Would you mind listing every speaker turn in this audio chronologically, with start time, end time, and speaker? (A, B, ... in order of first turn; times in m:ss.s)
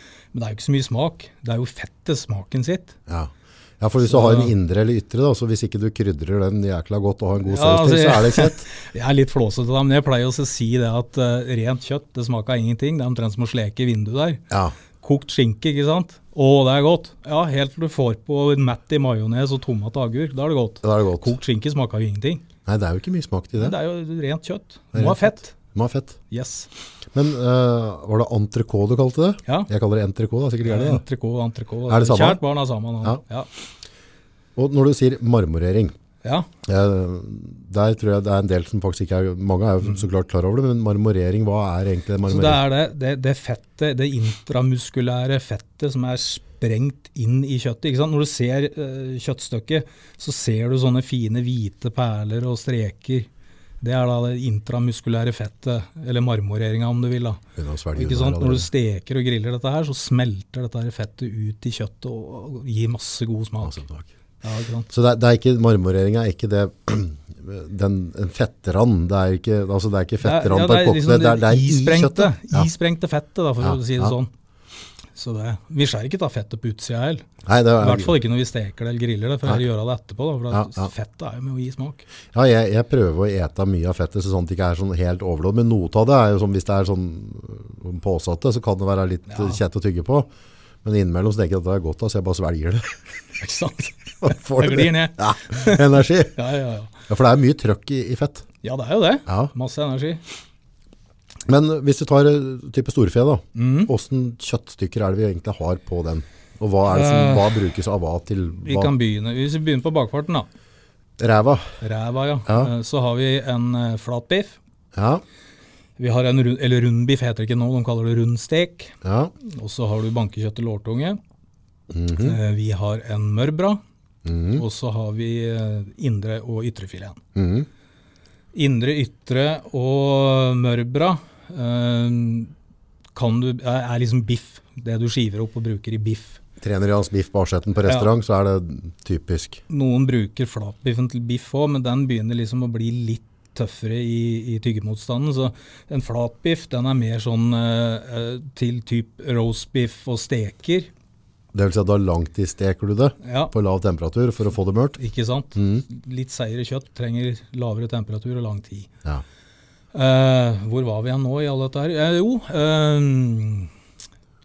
0:00.3-0:03.0 A
0:03.1-0:08.6 B
0:04.1-0:04.5 A
0:07.5-0:14.4 A
0:15.0-0:22.4 A
0:20.8-0:21.3 B
0:22.6-0:23.8 B
0:23.6-0:25.5 A
0:24.9-0:26.2 B
0:26.3-0:26.7 A
0:27.1-0:31.0 B
0:30.7-0:33.5 A
0:31.9-0:32.4 B
0:34.6-0:35.9 B
0:36.6-0:42.6 B
0:42.3-0:53.3 A
0:53.8-0:57.4 A
0:57.6-0:58.7 B
0:57.9-1:03.8 A
1:03.6-1:04.1 B
1:04.4-1:04.9 A
1:04.9-1:12.7 B
1:10.2-1:14.3 A
1:13.6-1:14.1 B
1:15.2-1:17.2 A
1:17.4-1:18.2 B
1:17.8-1:22.0 A
1:20.5-1:20.9 B
1:22.3-1:30.3 B
1:29.3-1:29.6 A
1:30.8-1:32.9 B
1:33.4-1:36.9 A
1:34.2-1:36.4 B
1:37.1-1:38.5 B
1:38.6-1:40.2 A
1:39.3-1:39.5 B
1:41.5-1:48.9 B
1:43.6-1:43.9 A
1:46.9-1:47.6 A
1:48.6-1:50.5 A
1:51.2-1:51.7 B
1:51.8-1:54.6 A
1:55.0-1:55.2 B
1:56.0-2:01.2 A
1:59.0-1:59.3 B
2:01.9-2:02.4 B
2:02.2-2:03.8 A
2:04.2-2:04.6 B
2:04.6-2:07.2 A
2:07.4-2:07.7 B
2:08.5-2:12.5 A
2:13.2-2:16.4 A
2:16.6-2:19.6 B
2:17.8-2:18.1 A
2:19.7-2:30.9 A
2:31.5-2:35.0 B
2:33.2-2:33.5 A
2:35.0-2:38.9 A
2:35.6-2:35.8 B
2:39.9-2:43.7 A